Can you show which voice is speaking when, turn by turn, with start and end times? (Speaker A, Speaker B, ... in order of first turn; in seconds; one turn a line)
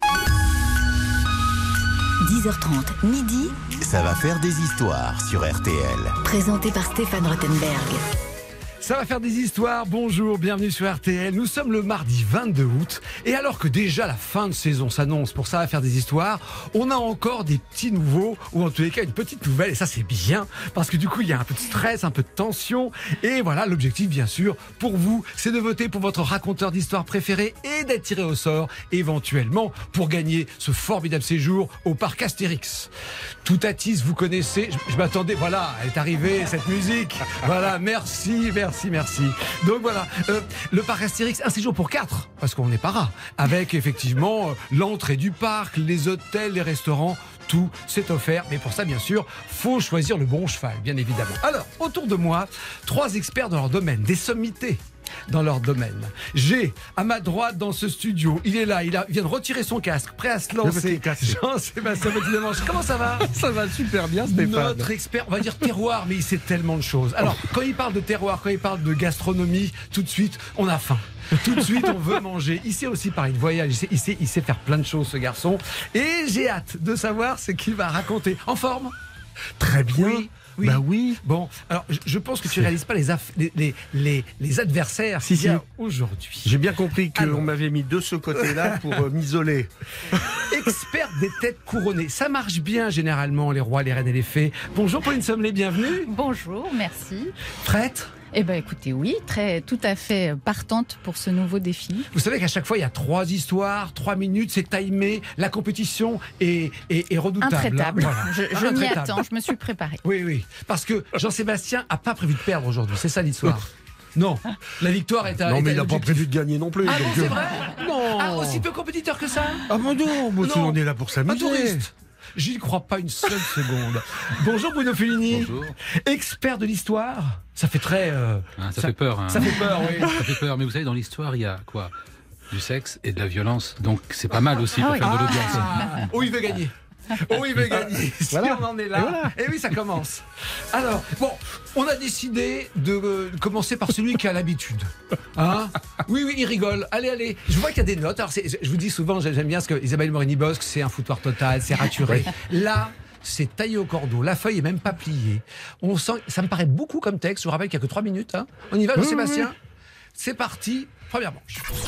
Speaker A: 2.2-3.6
Speaker B: 3.8-6.2
Speaker A: 6.2-8.0
Speaker C: 8.8-32.9
Speaker C: 33.4-63.3
Speaker D: 60.6-61.4
Speaker D: 63.3-64.9
Speaker C: 64.3-78.9
Speaker D: 79.6-81.2
Speaker C: 79.9-86.6
Speaker D: 85.2-85.6
Speaker D: 86.4-90.3
Speaker C: 87.1-87.5
Speaker C: 88.4-89.0
Speaker C: 90.5-96.1
Speaker E: 96.1-97.3
Speaker C: 97.6-98.1
Speaker E: 98.3-102.1
Speaker C: 102.1-109.2
Speaker E: 107.4-110.0
Speaker C: 110.0-116.3
Speaker D: 115.4-118.6
Speaker C: 116.8-119.7
Speaker D: 119.7-121.8
Speaker C: 120.4-130.2
Speaker F: 125.3-125.7
Speaker F: 128.6-131.9
Speaker F: 132.5-136.1
Speaker C: 134.9-159.6
Speaker D: 138.3-139.3
Speaker D: 158.9-159.5
Speaker C: 160.2-161.7